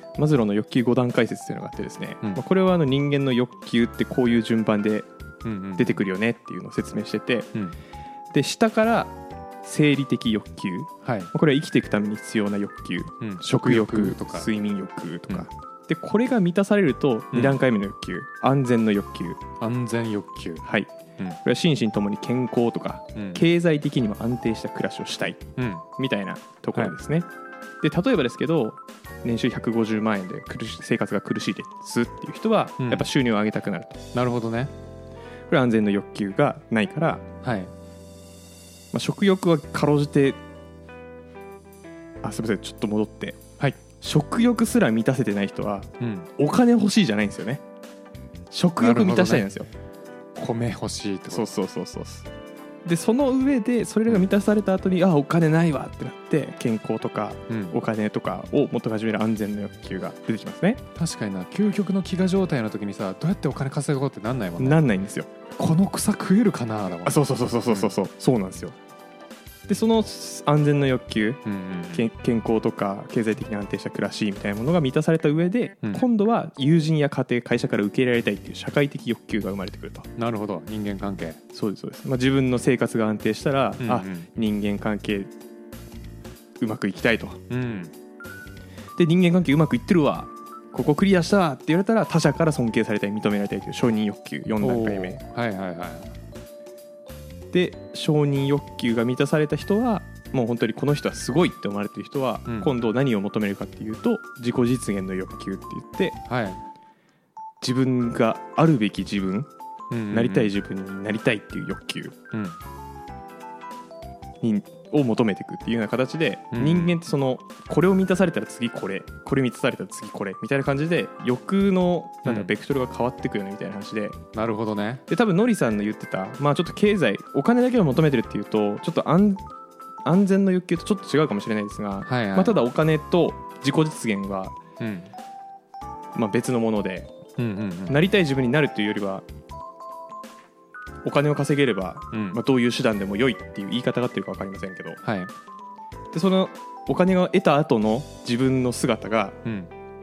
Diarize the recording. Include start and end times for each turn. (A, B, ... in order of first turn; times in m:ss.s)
0:00.2-0:05.1 A
0:05.4-0:06.0 B
0:05.8-0:07.5 A
0:08.3-0:19.4 A
0:11.0-0:11.3 B
0:13.2-0:14.5 B
0:17.3-0:17.6 B
0:19.6-0:20.7 B
0:20.6-0:20.9 A
0:21.4-0:25.4 A
0:23.1-0:23.4 B
0:25.6-0:25.8 B
0:26.0-0:27.3 A
0:27.8-0:34.0 A
0:32.8-0:33.1 B
0:34.1-0:34.7 B
0:35.5-0:37.2 A
0:37.4-0:37.7 B
0:38.9-0:40.4 A
0:42.2-0:43.4 A
0:44.0-0:47.6 A
0:46.0-0:46.3 B
0:48.5-0:49.7 A
0:48.8-0:49.4 B
0:50.3-0:51.5 B
0:51.3-0:52.3 A
0:52.8-1:00.8 A
0:57.5-0:57.8 B
1:00.9-1:04.8 B
1:04.6-1:05.3 A
1:05.5-1:07.9 B
1:07.0-1:08.8 A
1:09.7-1:20.1 A
1:11.4-1:12.1 B
1:20.2-1:21.4 B
1:21.5-1:25.3 A
1:23.8-1:24.3 B
1:26.6-1:27.4 A
1:27.5-1:27.9 B
1:29.0-1:35.2 A
1:34.6-1:36.1 B
1:37.5-1:46.2 A
1:42.5-1:42.7 B
1:46.2-1:46.6 B
1:47.6-1:49.5 A
1:49.9-1:50.5 B
1:50.1-1:52.2 A
1:52.3-1:52.6 B
1:54.4-2:04.2 A
1:56.5-1:57.0 B
2:02.2-2:02.5 B
2:04.3-2:05.0 B
2:05.1-2:09.4 A
2:10.0-2:14.6 A
2:12.0-2:12.6 B
2:14.8-2:15.1 B
2:16.1-2:17.1 A
2:17.4-2:18.0 B
2:17.9-2:19.2 A
2:21.0-2:25.0 A
2:22.1-2:22.4 B
2:25.0-2:25.3 B
2:26.1-2:29.4 A
2:29.4-2:29.7 B